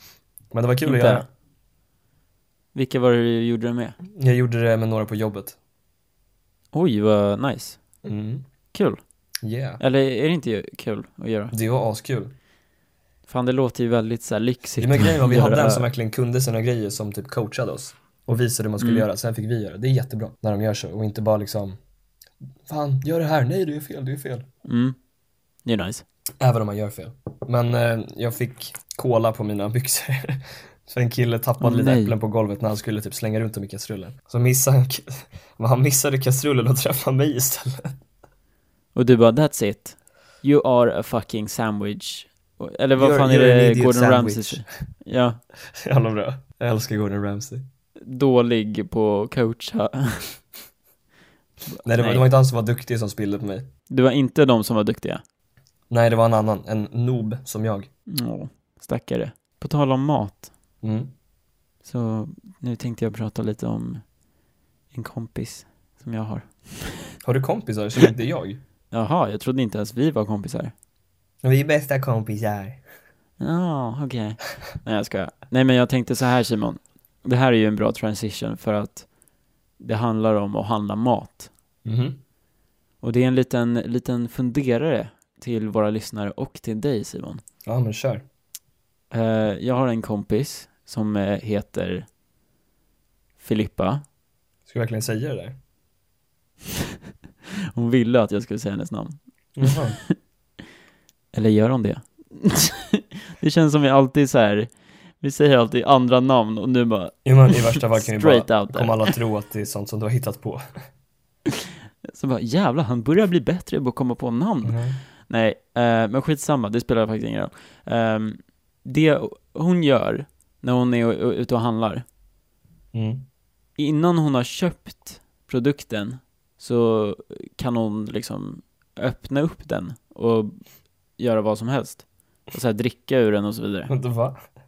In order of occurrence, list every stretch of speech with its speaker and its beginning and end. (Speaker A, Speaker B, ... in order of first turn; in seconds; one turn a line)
Speaker A: 0.5-1.2
Speaker B: 0.8-1.2
Speaker B: 2.7-4.0
Speaker A: 4.1-5.6
Speaker B: 6.7-7.8
Speaker A: 8.0-8.4
Speaker B: 8.7-9.0
Speaker A: 9.4-9.8
Speaker B: 9.8-11.5
Speaker A: 11.5-12.3
Speaker B: 13.3-15.9
Speaker A: 14.8-21.8
Speaker B: 18.8-19.1
Speaker A: 22.6-24.5
Speaker B: 24.6-24.9
Speaker B: 25.6-26.0
Speaker A: 26.4-38.0
Speaker B: 31.6-32.1
Speaker B: 38.9-45.4
Speaker A: 43.0-44.7
Speaker A: 45.7-47.6
Speaker B: 48.0-50.2
Speaker B: 51.7-52.2
Speaker A: 51.8-53.7
Speaker B: 53.9-55.2
Speaker A: 55.9-57.9
Speaker B: 58.1-60.5
Speaker A: 60.8-61.1
Speaker B: 61.8-64.0
Speaker B: 64.9-67.0
Speaker A: 67.2-68.6
Speaker B: 68.9-70.7
Speaker A: 71.4-72.8
Speaker B: 73.4-79.0
Speaker B: 79.8-81.5
Speaker A: 81.8-82.2
Speaker B: 83.0-87.4
Speaker A: 87.6-88.2
Speaker B: 89.1-92.1
Speaker B: 93.4-94.0
Speaker A: 94.7-95.5
Speaker B: 97.7-100.1
Speaker A: 99.5-100.0
Speaker B: 101.3-104.7
Speaker B: 105.2-109.1
Speaker A: 107.2-110.6
Speaker B: 112.1-122.0
Speaker A: 114.6-115.0
Speaker A: 122.9-123.2
Speaker B: 123.8-130.6
Speaker B: 131.2-133.9
Speaker A: 133.9-134.4